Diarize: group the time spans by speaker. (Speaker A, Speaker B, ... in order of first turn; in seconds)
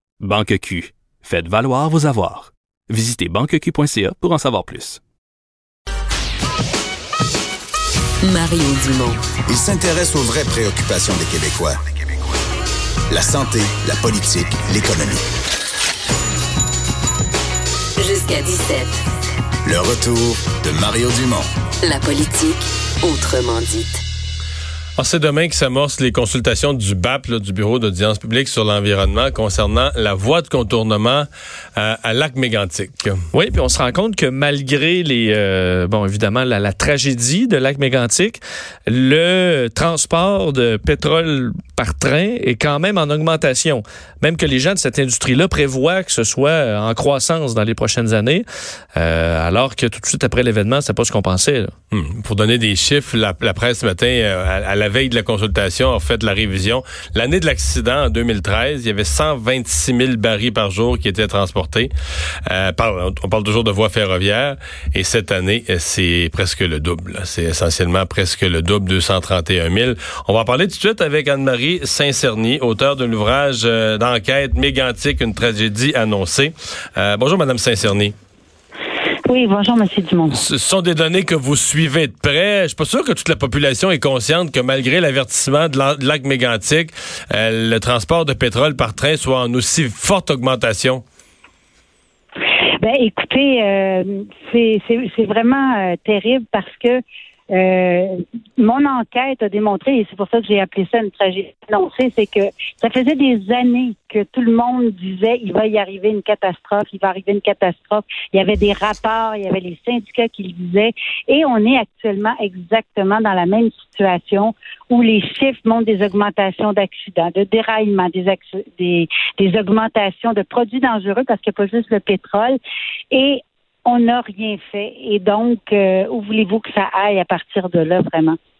Speaker A: 0.2-5.0
Speaker B: 8.2-9.3, 18.0-19.0, 21.8-24.0
Speaker C: 9.5-11.8, 13.1-15.2, 19.6-21.5
Speaker D: 25.0-33.2, 51.9-61.9, 62.5-78.1, 80.3-91.0
Speaker E: 33.3-51.7
Speaker F: 79.3-80.4, 92.8-97.0, 97.5-122.6, 123.1-128.4